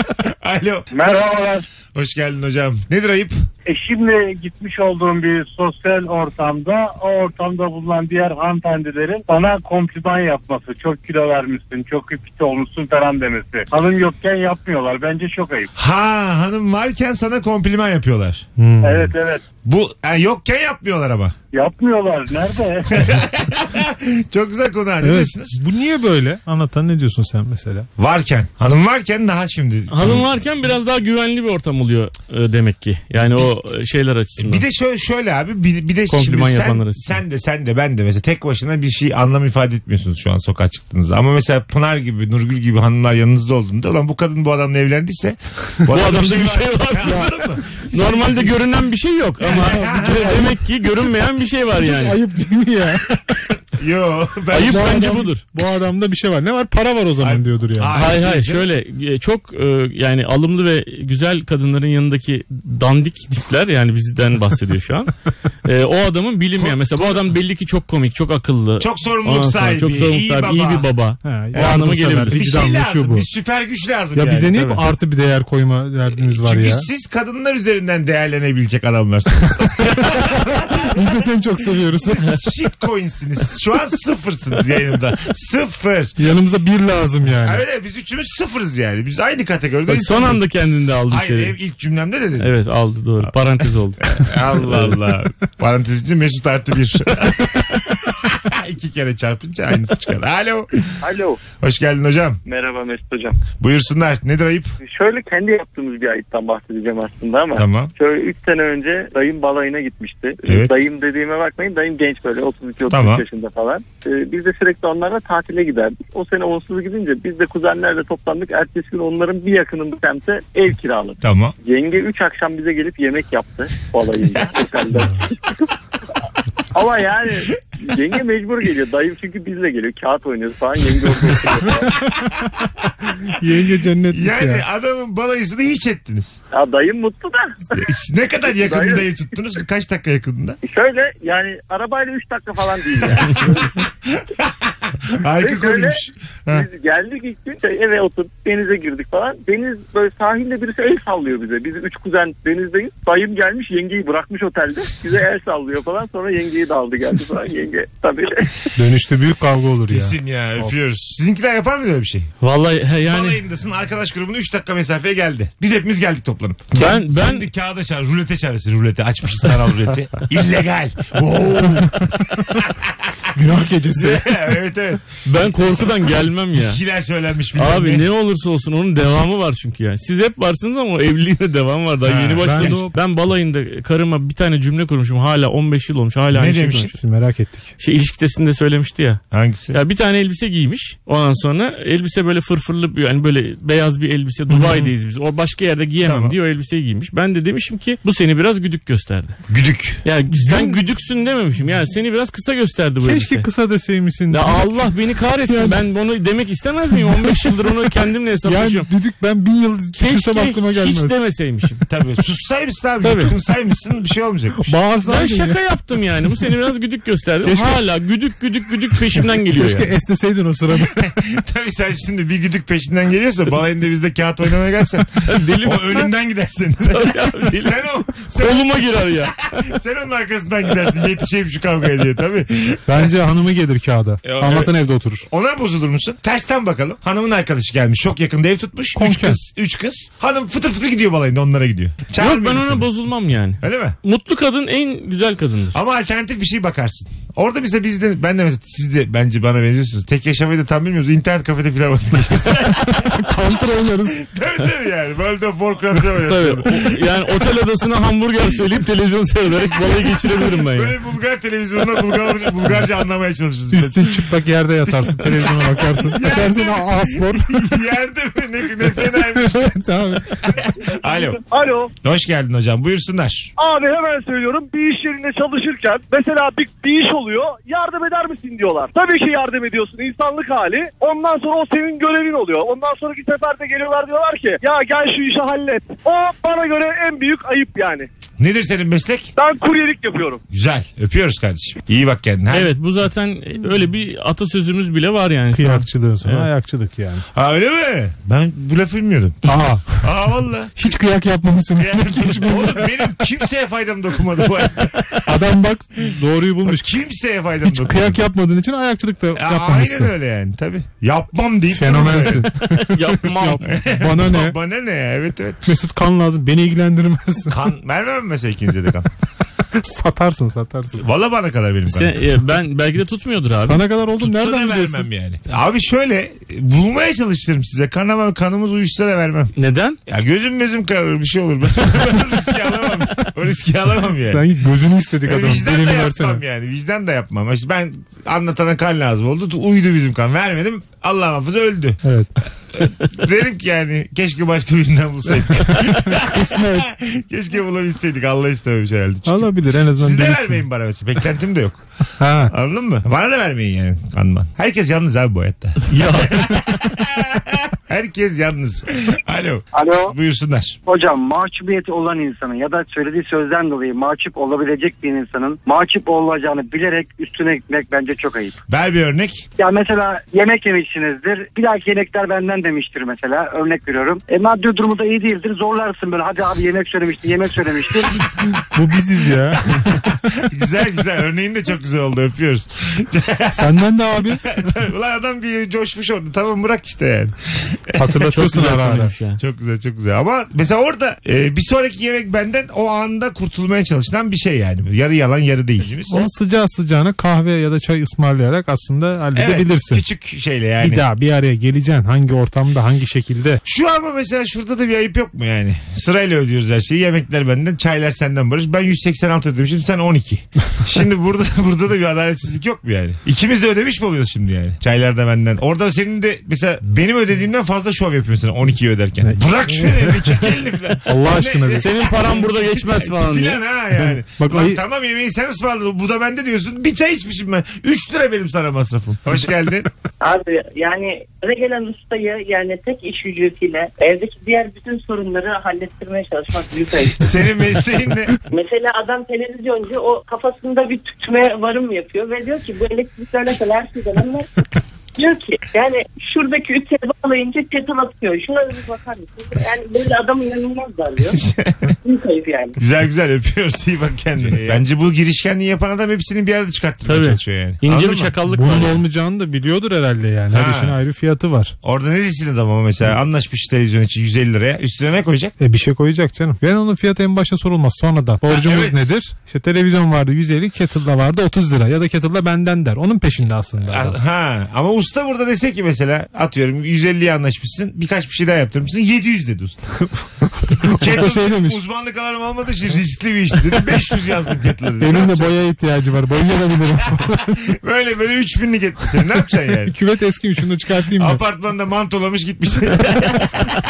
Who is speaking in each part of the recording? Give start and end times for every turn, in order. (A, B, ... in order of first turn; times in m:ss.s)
0:00.4-0:00.9 A
0:00.9-0:01.7 B
0:01.9-0:03.3 A
0:03.7-0:15.7 B
0:15.8-0:18.4 A
0:18.6-0:19.1 C
0:18.8-0:19.4 B
0:19.6-0:21.3 A
0:21.5-0:23.0 B
0:23.0-0:25.6 A
0:25.0-0:27.9 C
0:28.0-0:30.2 A
0:29.9-0:34.6 D
0:34.4-0:48.5 A
0:36.1-0:37.2 D
0:45.9-0:52.2 D
0:49.4-0:50.3 A
0:49.5-0:50.6 C
0:51.8-0:53.2 C
0:53.8-0:54.8 A
0:54.5-0:55.4 D
0:54.6-0:58.0 C
0:57.2-0:58.6 A
0:57.9-1:05.1 D
1:05.6-1:12.5 D
1:06.6-1:07.3 A
1:08.8-1:10.9 A
1:11.2-1:13.3 C
1:11.6-1:14.5 A
1:14.1-1:16.9 C
1:14.6-1:14.8 D
1:16.3-1:20.3 A
1:20.9-1:22.3 C
1:22.0-1:26.1 A
1:26.2-1:27.6 C
1:27.4-1:30.4 A
1:29.9-1:31.5 D
1:31.1-1:32.5 A
1:32.4-1:34.1 D
1:34.2-1:37.8 A
1:34.6-1:34.9 D
1:38.6-1:40.7 A
1:41.0-1:41.4 E
1:41.6-1:42.4 A
1:42.4-1:43.4 E
1:43.6-1:44.7 A
1:44.8-2:05.6 E
1:47.6-1:47.9 A
1:52.9-1:53.2 A
2:01.2-2:01.5 A
2:06.7-2:11.9 E
2:13.2-2:14.6 C
2:14.1-2:16.4 A
2:16.5-2:17.5 E
2:17.8-2:20.6 A
2:18.5-2:19.1 E
2:20.6-2:23.7 E
2:25.2-2:26.6 A
2:25.4-2:38.5 E
2:38.8-2:40.7 C
2:39.9-2:42.3 A
2:42.4-2:43.4 D
2:43.1-2:52.0 A
2:46.7-2:47.5 D
2:53.3-2:54.4 C
2:54.0-2:55.9 A
2:55.2-2:56.8 D
2:56.5-2:58.0 A
2:57.5-3:07.0 D
3:02.0-3:02.8 A
3:02.4-3:02.9 C
3:06.3-3:06.9 A
3:06.9-3:07.7 C
3:07.8-3:19.4 D
3:09.3-3:09.8 A
3:14.5-3:14.9 C
3:16.0-3:16.4 A
3:19.5-3:20.0 A
3:20.0-3:23.5 D
3:20.3-3:20.8 C
3:23.0-3:24.9 C
3:24.3-3:28.9 D
3:25.4-3:25.8 C
3:27.0-3:27.6 C
3:28.4-3:31.1 C
3:29.9-3:31.8 D
3:31.9-3:34.6 A
3:33.0-3:33.3 D
3:34.6-3:35.6 C
3:35.0-3:39.9 D
3:37.4-3:37.8 C
3:39.0-3:41.0 C
3:41.0-3:45.0 A
3:45.1-3:46.1 D
3:45.6-3:48.7 A
3:46.9-3:49.4 D
3:49.2-3:53.0 A
3:52.9-3:55.3 C
3:54.2-3:54.7 A
3:55.3-4:02.9 A
3:58.9-3:59.4 C
4:02.2-4:05.8 D
4:03.6-4:04.0 A
4:05.7-4:13.2 A
4:12.8-4:14.2 C
4:14.2-4:16.9 A
4:16.2-4:20.9 D
4:20.6-4:24.0 A
4:23.7-4:27.6 C
4:25.2-4:29.7 A
4:29.3-4:30.4 C
4:30.5-4:31.4 A
4:31.4-4:31.9 F
4:32.0-4:33.5 A
4:33.6-4:48.1 F
4:48.4-4:49.3 A
4:49.4-4:50.4 F
4:50.5-4:52.7 A
4:52.5-4:56.5 D
4:55.5-4:57.2 C
4:57.3-4:59.3 A
4:59.4-5:00.1 C
5:00.0-5:00.7 A
5:00.8-5:03.0 C
5:01.8-5:05.0 A
5:05.2-5:06.9 C
5:06.6-5:08.2 A
5:07.6-5:10.1 C
5:09.3-5:12.4 A
5:11.7-5:14.6 C
5:12.7-5:13.7 D
5:13.6-5:15.6 A
5:15.6-5:17.6 C
5:17.5-5:19.1 A
5:19.8-5:21.0 C
5:21.0-5:22.1 A
5:21.8-5:23.8 D
5:23.5-5:25.1 C
5:24.2-5:29.5 A
5:29.6-5:30.0 D
5:30.1-5:34.4 A
5:34.2-5:36.4 C
5:35.3-5:42.0 A
5:42.0-5:42.3 C
5:43.2-5:46.2 A
5:45.7-5:46.9 C
5:47.0-5:49.4 A
5:49.2-5:50.6 C
5:50.0-5:51.8 A
5:52.2-5:52.5 C
5:52.5-5:55.8 A
5:55.8-5:56.6 D
5:56.4-5:57.2 A
5:57.9-6:00.8 A
6:00.8-6:08.6 G
6:08.7-6:09.4 A
6:09.6-6:18.2 G
6:18.6-6:20.1 C
6:20.5-6:23.5 A
6:23.5-6:24.4 C
6:24.6-6:27.3 A
6:28.0-6:29.1 C
6:28.2-6:29.4 D
6:29.4-6:36.3 A
6:36.1-6:40.0 C
6:39.3-6:41.0 A
6:40.8-6:43.6 C
6:43.6-7:09.8 A
6:59.2-7:00.3 C
7:01.0-7:01.8 C
7:01.8-7:03.6 D
7:04.3-7:04.8 C
7:10.2-7:17.2 H
7:17.2-7:18.3 A
7:18.5-7:24.5 H
7:25.2-7:31.4 H
7:31.4-7:31.7 A
7:32.0-7:32.8 H
7:32.8-7:38.3 A
7:37.0-7:39.0 D
7:38.4-7:41.7 C
7:40.5-7:41.0 A
7:41.8-7:45.5 A
7:45.6-7:54.2 C
7:48.5-7:49.0 A
7:53.9-7:59.8 A
8:00.0-8:01.8 C
8:01.0-8:05.4 A
8:05.0-8:07.6 C
8:07.8-8:09.9 A
8:09.8-8:11.4 C
8:11.2-8:13.4 A